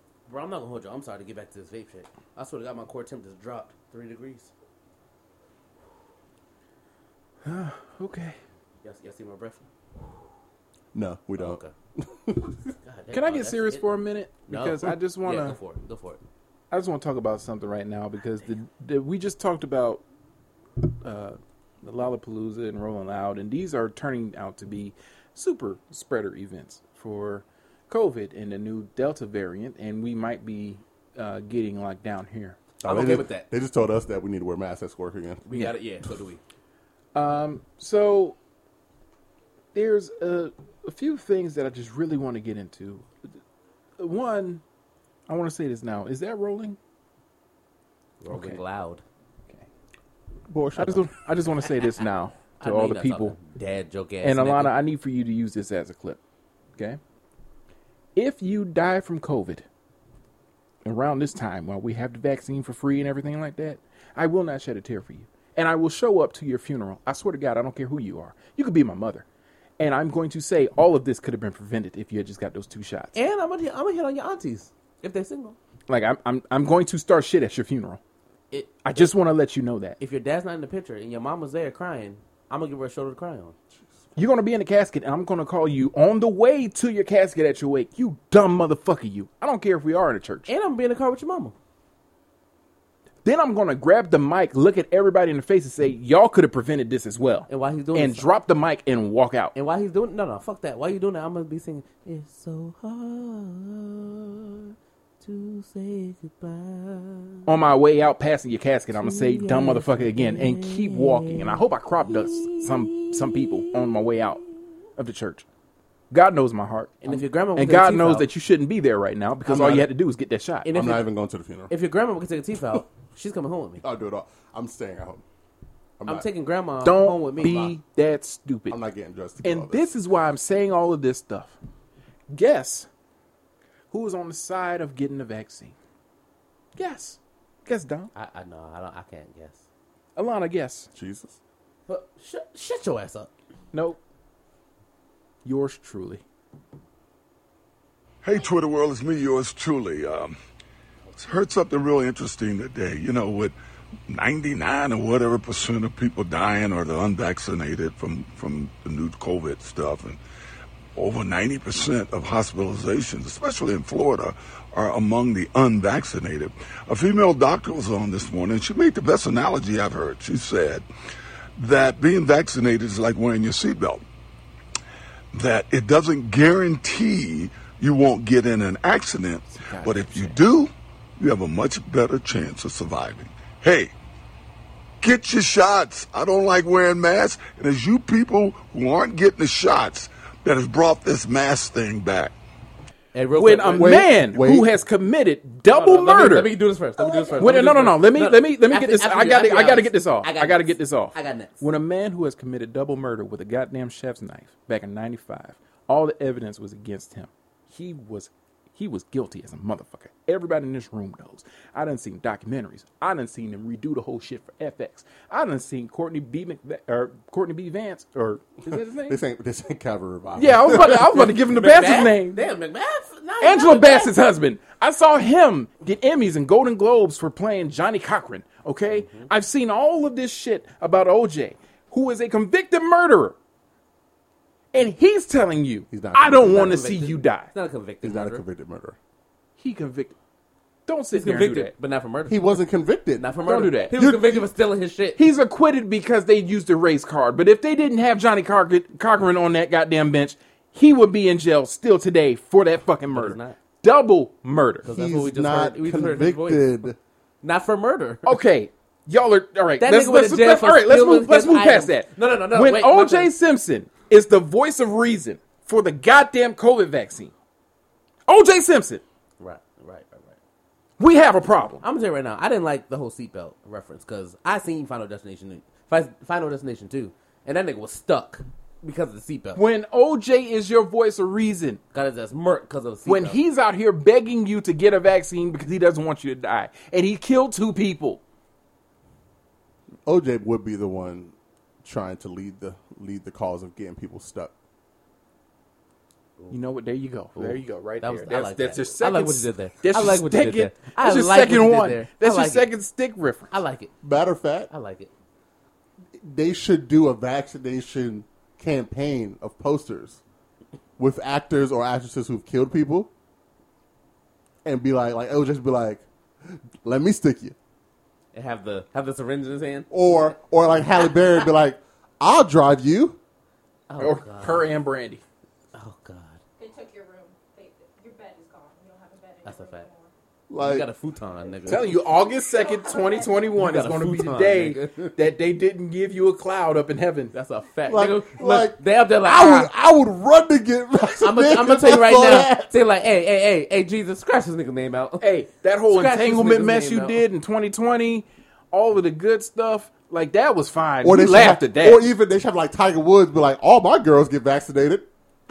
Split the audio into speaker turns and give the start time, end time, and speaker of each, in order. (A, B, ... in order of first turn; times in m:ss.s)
0:00.3-0:04.5 A
0:07.4-0:08.4 B
0:08.8-0:09.7 A
0:10.9-0:12.7 C
0:11.4-0:11.7 A
0:12.8-0:16.2 A
0:13.1-0:15.6 B
0:16.7-0:20.0 B
0:20.8-0:32.6 B
0:32.8-0:35.4 C
0:32.8-0:33.5 A
0:35.5-0:36.4 A
0:37.2-0:38.4 B
0:39.7-0:43.1 B
0:44.0-0:44.6 B
0:45.3-0:46.8 B
0:48.2-0:49.0 A
0:48.3-0:48.6 B
0:50.5-0:51.1 C
0:50.8-0:53.4 B
0:52.6-0:54.8 A
0:54.2-0:56.2 B
0:58.2-0:59.6 B
1:00.8-1:09.2 B
1:09.8-1:13.2 B
1:13.1-1:15.6 A
1:15.9-1:18.0 B
1:18.5-1:19.1 A
1:18.8-1:20.0 B
1:20.0-1:23.6 A
1:24.2-1:30.5 B
1:30.5-1:31.6 A
1:33.2-1:39.5 B
1:37.5-1:38.3 A
1:39.6-1:47.5 A
1:47.5-1:55.5 B
1:49.0-1:54.1 A
1:56.1-2:00.7 B
1:57.0-1:58.3 A
1:59.5-1:59.9 C
2:00.6-2:01.0 A
2:00.7-2:01.7 C
2:01.7-2:03.8 A
2:03.8-2:05.2 C
2:06.0-2:06.3 C
2:06.1-2:07.8 A
2:06.8-2:08.8 B
2:08.7-2:09.9 C
2:09.4-2:11.6 B
2:12.3-2:12.9 B
2:13.9-2:15.8 B
2:16.8-2:18.1 B
2:18.1-2:19.6 A
2:20.2-2:20.9 B
2:21.0-2:21.4 C
2:21.9-2:23.3 A
2:23.7-2:24.0 B
2:25.4-2:26.2 B
2:28.2-2:30.4 D
2:31.2-2:33.6 D
2:34.1-2:40.2 D
2:41.0-2:50.9 D
2:51.6-2:54.0 D
2:55.3-3:03.9 D
2:59.5-3:00.4 B
3:05.0-3:12.4 D
3:13.1-3:14.0 A
3:13.4-3:16.6 B
3:13.7-3:14.7 C
3:15.7-3:21.6 A
3:17.0-3:17.4 E
3:17.4-3:39.2 B
3:38.7-3:41.2 C
3:40.4-3:42.4 B
3:40.7-3:44.1 A
3:43.4-3:53.4 B
3:48.9-3:49.3 A
3:54.7-3:57.5 B
3:55.9-3:56.8 C
3:56.4-3:58.4 A
3:58.0-3:59.0 C
3:59.6-4:00.2 B
4:00.9-4:01.7 B
4:01.1-4:02.6 A
4:02.3-4:03.3 C
4:03.2-4:05.2 A
4:03.4-4:04.0 B
4:03.9-4:04.5 C
4:05.2-4:14.9 B
4:13.1-4:13.6 A
4:14.8-4:16.8 A
4:14.9-4:17.0 C
4:17.4-4:18.3 A
4:18.3-4:27.3 B
4:19.8-4:23.3 A
4:28.3-4:29.0 B
4:29.4-4:30.4 A
4:31.0-4:31.8 B
4:31.8-4:39.6 A
4:39.6-4:41.8 B
4:41.9-4:43.4 A
4:43.1-4:48.2 B
4:50.1-4:54.5 C
4:56.5-5:03.5 B
4:57.4-5:02.7 A
5:03.5-5:03.9 A
5:04.0-5:04.7 C
5:04.7-5:05.1 A
5:06.2-5:10.2 C
5:11.0-5:13.1 C
5:14.6-5:17.6 C
5:18.3-5:19.9 A
5:19.9-5:23.2 C
5:23.9-5:24.7 A
5:24.0-5:25.2 B
5:25.7-5:26.4 A
5:26.6-5:30.1 E
5:29.4-5:29.9 A
5:30.5-5:30.9 C
5:30.6-5:31.9 A
5:31.7-5:37.3 B
5:32.2-5:33.5 E
5:33.6-5:35.1 A
5:37.3-5:39.7 A
5:37.9-5:42.8 C
5:41.2-5:45.3 A
5:45.2-5:52.1 B
5:45.9-5:47.2 A
5:51.0-5:55.1 C